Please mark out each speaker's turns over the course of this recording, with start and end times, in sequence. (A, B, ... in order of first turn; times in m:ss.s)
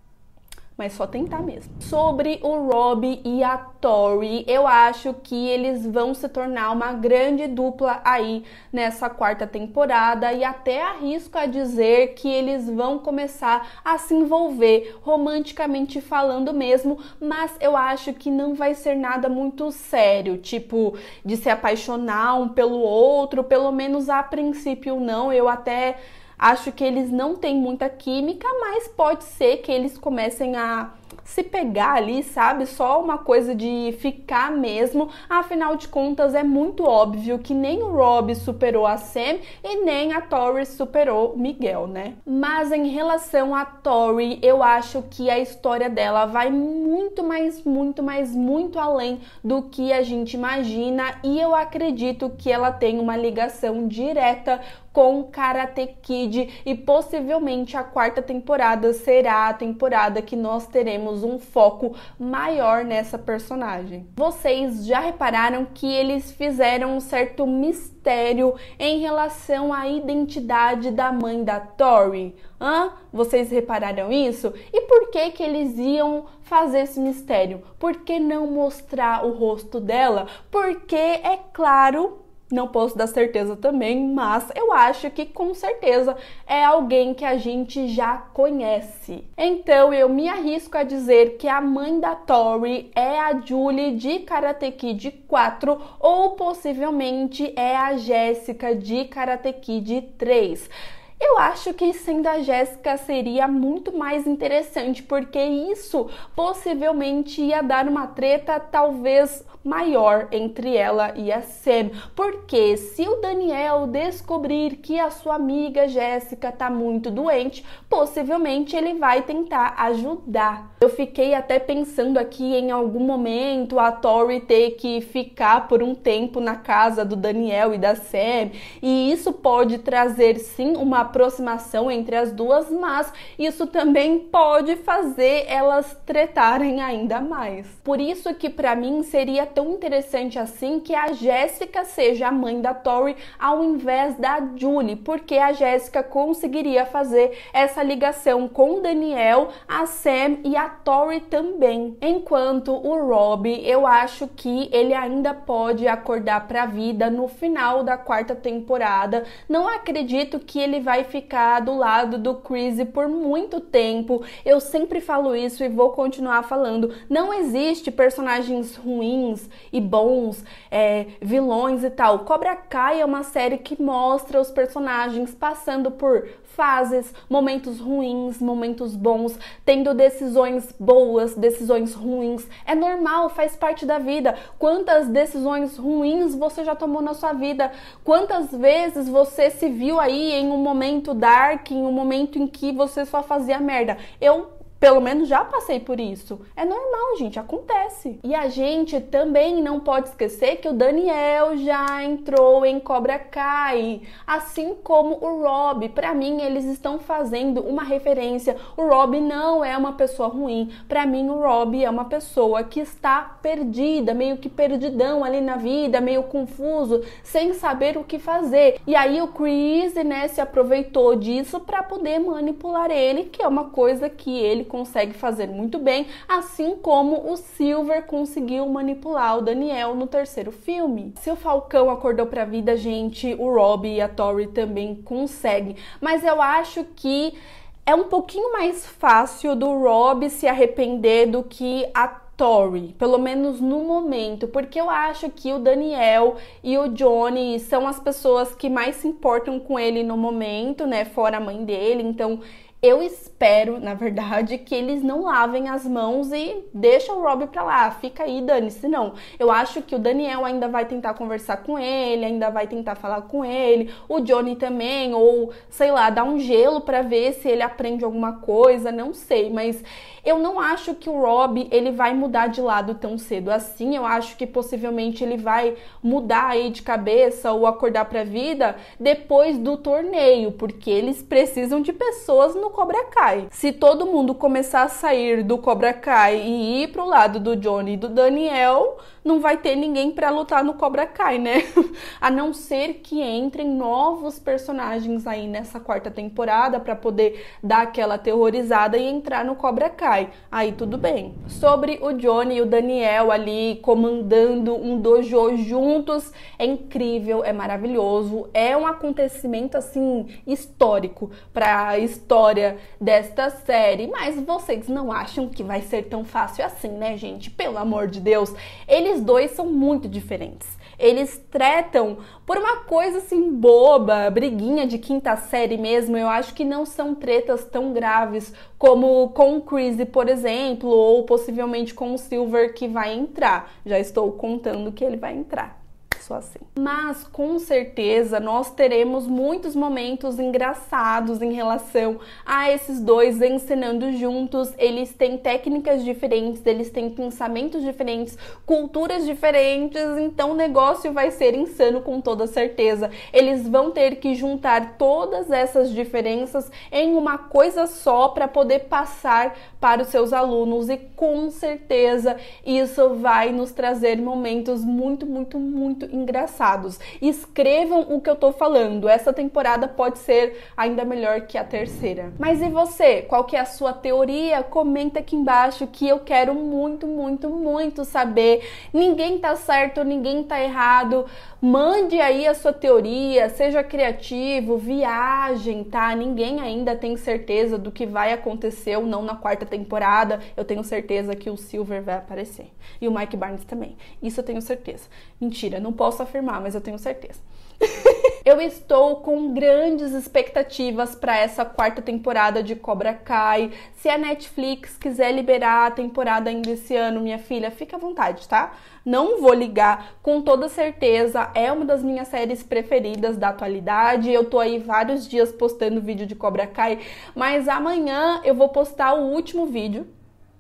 0:00.8-4:51.6 A
4:52.2-7:00.1 A